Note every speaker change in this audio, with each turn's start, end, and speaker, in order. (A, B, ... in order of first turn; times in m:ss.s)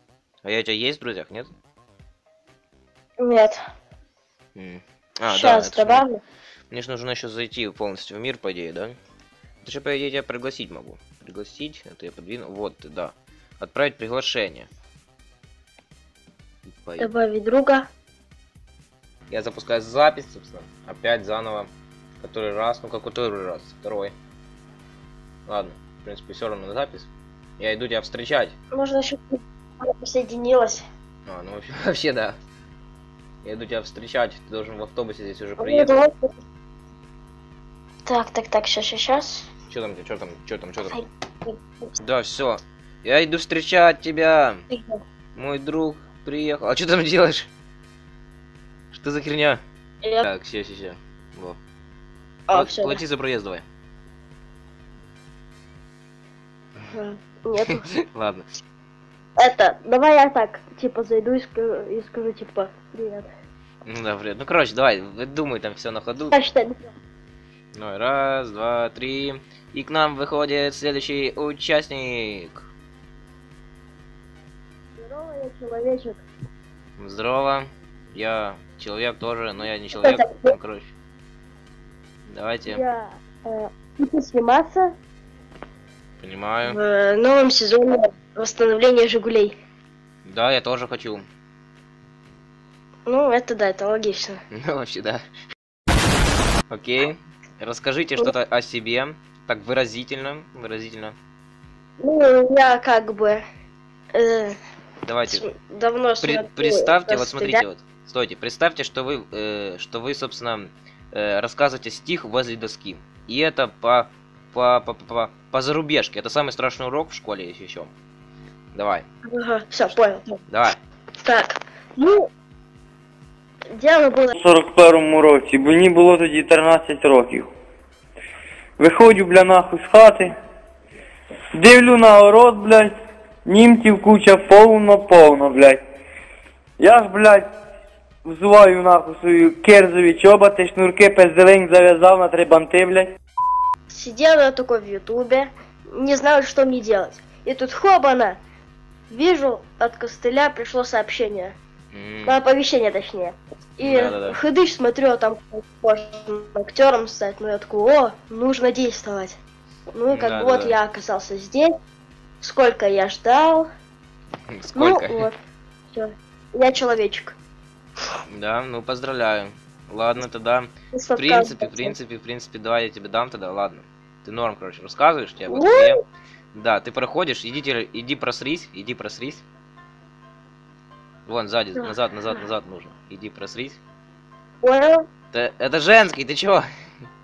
0:00.4-0:01.5 A
0:03.2-0:03.6 B
0:04.6-0:06.0 A
0:05.3-0:06.2 B
0:06.7-0:09.0 A
0:09.6-0:14.7 A
0:16.7-0:17.1 A
0:17.0-0:17.9 B
0:19.3-0:24.1 A
0:25.5-0:28.5 A
0:28.7-0:30.8 B
0:31.3-0:32.4 A
0:33.4-0:36.0 A
0:35.6-0:36.3 B
0:38.1-0:39.5 B
0:39.7-0:41.0 A
0:40.9-0:41.9 B
0:42.0-0:44.6 A
0:44.7-0:45.0 B
0:45.4-0:47.5 A
0:48.9-0:49.6 A
0:50.2-0:51.6 A
0:52.5-0:53.0 B
0:52.5-0:53.6 A
0:56.9-0:57.9 B
0:57.7-0:58.4 A
0:59.4-1:03.3 B
1:03.8-1:06.4 A
1:06.3-1:06.9 B
1:07.8-1:12.6 A
1:15.0-1:16.2 B
1:17.0-1:20.9 A
1:20.0-1:20.5 B
1:22.3-1:22.8 A
1:22.7-1:24.9 B
1:26.2-1:26.8 A
1:26.7-1:29.6 B
1:30.2-1:31.2 A
1:33.1-1:34.4 B
1:34.5-1:35.2 A
1:36.7-1:41.2 A
1:42.0-1:43.4 B
1:44.2-1:44.6 B
1:45.0-1:45.5 A
1:45.3-1:47.6 B
1:46.2-1:57.9 A
1:58.7-1:59.1 A
1:59.3-2:00.4 B
2:00.5-2:00.8 A
2:01.2-2:02.3 B
2:03.8-2:04.4 B
2:04.4-2:07.5 C
2:08.8-2:10.3 C
2:11.6-2:15.8 C
2:16.8-2:17.5 C
2:18.2-2:23.1 C
2:23.9-2:28.4 B
2:29.1-2:31.6 B
2:31.9-2:32.4 A
2:32.3-2:39.4 B
2:33.8-2:34.4 A
2:39.9-2:41.7 B
2:40.1-2:40.8 A
2:42.4-2:43.7 B
2:44.5-2:45.3 A
2:44.8-2:45.4 B
2:45.9-2:47.4 B
2:48.3-2:56.0 A
2:50.9-2:52.0 B
2:55.5-2:56.0 B
2:56.5-2:59.4 A
3:01.3-3:03.8 A
3:04.6-3:05.0 B
3:05.3-3:06.6 A